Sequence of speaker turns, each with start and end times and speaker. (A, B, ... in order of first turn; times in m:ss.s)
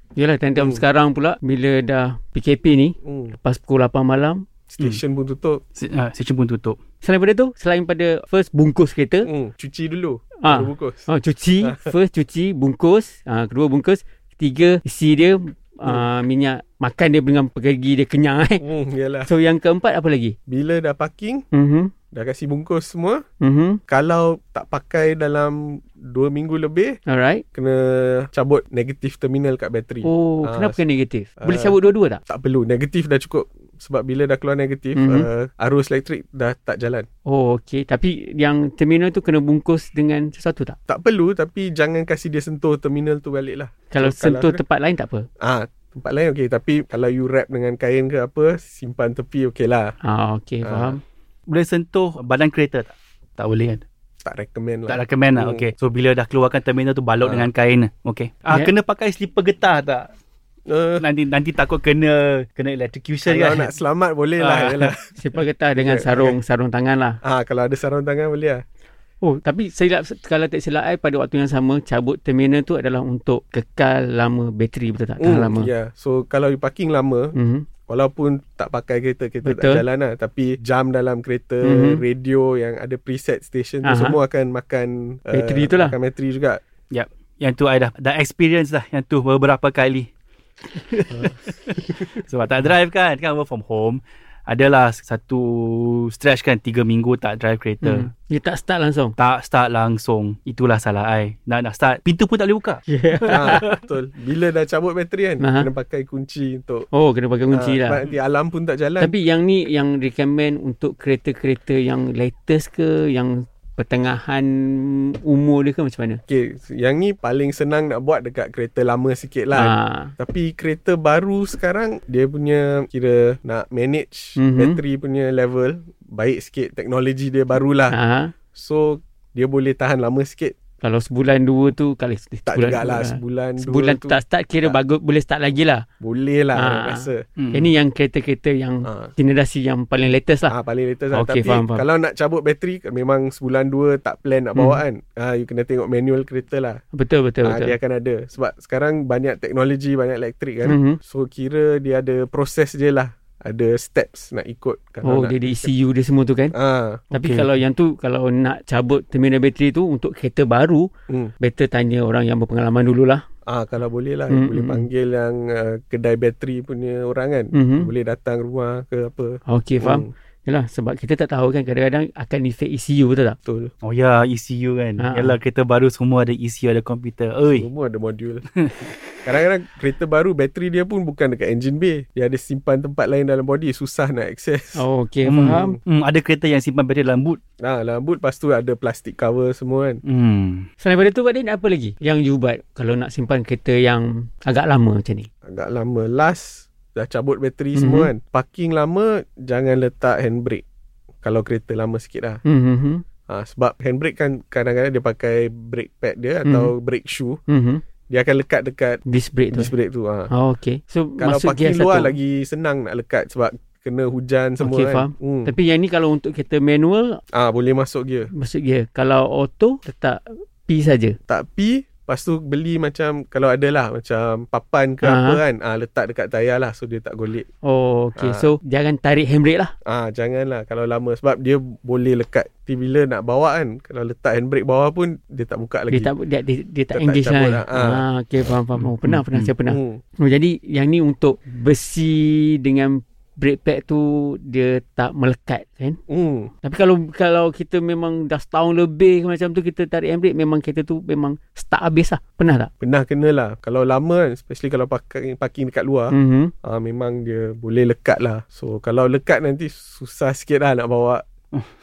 0:00.2-0:04.4 A
0:00.6-0:00.8 B
0:03.0-0:03.4 B
0:04.7-0:05.6 B
0:05.8-0:06.8 C
0:07.0-0:09.3 A
0:09.2-0:11.1 B
0:10.4-0:18.6 A
0:11.6-0:11.9 B
0:18.6-0:19.3 B
0:19.2-0:20.4 A
0:20.5-0:21.4 B
0:21.5-0:21.9 A
0:22.1-0:23.2 B
0:23.4-0:23.8 A
0:23.9-0:27.0 B
0:27.1-0:27.4 A
0:27.5-0:30.8 B
0:30.0-0:32.2 A
0:31.4-0:37.1 B
0:35.0-0:35.3 A
0:37.3-0:40.8 A
0:40.9-0:44.6 B
0:43.9-0:45.3 A
0:45.4-0:50.0 B
0:50.0-0:51.0 A
0:50.6-0:51.0 B
0:51.5-0:53.8 C
0:54.2-0:55.7 B
0:54.9-1:00.1 C
0:57.2-0:57.5 B
1:00.7-1:01.0 B
1:01.0-1:03.7 C
1:03.3-1:05.2 B
1:04.4-1:04.9 C
1:05.2-1:07.2 A
1:05.8-1:06.4 B
1:07.2-1:08.6 B
1:09.2-1:15.7 A
1:15.2-1:17.4 B
1:17.4-1:17.7 A
1:17.9-1:26.6 B
1:19.4-1:19.8 A
1:21.6-1:22.0 A
1:23.8-1:24.2 A
1:25.3-1:26.0 A
1:26.9-1:30.1 C
1:32.2-1:38.1 C
1:37.8-1:39.2 A
1:39.2-1:42.8 C
1:42.9-1:43.8 A
1:43.3-1:46.9 B
1:45.4-1:45.7 A
1:46.9-1:48.1 A
1:47.5-1:49.1 B
1:49.0-1:56.2 A
1:56.3-2:08.0 B
1:59.5-2:00.1 A
2:04.4-2:04.8 A
2:07.9-2:08.3 A
2:08.6-2:10.6 B
2:10.8-2:15.8 A
2:12.5-2:14.8 B
2:16.0-2:17.3 B
2:16.6-2:20.5 A
2:17.4-2:17.7 C
2:18.8-2:19.1 B
2:20.5-2:26.8 B
2:21.1-2:21.9 A
2:24.6-2:24.8 A
2:26.9-2:27.8 A
2:27.4-2:35.7 B
2:30.6-2:31.0 A
2:35.0-2:36.6 A
2:36.5-2:37.1 B
2:37.1-2:37.6 C
2:37.1-2:40.9 A
2:41.4-2:43.2 A
2:43.5-2:50.1 B
2:44.3-2:44.9 A
2:47.5-2:47.9 A
2:49.5-2:53.4 A
2:53.5-2:53.7 B
2:53.8-2:57.7 C
2:55.0-2:55.4 A
2:57.6-2:58.5 B
2:58.6-2:58.9 C
2:59.2-3:04.9 B
3:04.8-3:05.8 A
3:05.2-3:07.4 C
3:05.4-3:05.8 B
3:07.6-3:10.0 B
3:10.0-3:10.7 C
3:10.8-3:15.3 A
3:15.5-3:20.6 B
3:17.8-3:18.1 A
3:21.2-3:22.4 B
3:22.4-3:23.0 A
3:23.3-3:27.4 B
3:26.4-3:26.7 A
3:27.5-3:27.8 A
3:28.1-3:29.0 B
3:29.1-3:29.7 A
3:29.5-3:30.3 B
3:30.3-3:32.2 A
3:31.2-3:35.5 B
3:34.6-3:37.2 A
3:37.3-3:38.3 B
3:38.3-3:41.2 A
3:41.3-3:47.5 B
3:45.0-3:45.4 A
3:47.6-3:49.8 A
3:48.2-3:48.5 B
3:49.9-3:56.1 B
3:55.9-4:06.0 A
3:56.9-3:58.0 B
3:58.8-3:59.5 C
3:59.7-4:00.0 B
4:06.1-4:06.5 B
4:06.6-4:12.7 A
4:12.8-4:21.2 B
4:16.1-4:16.5 A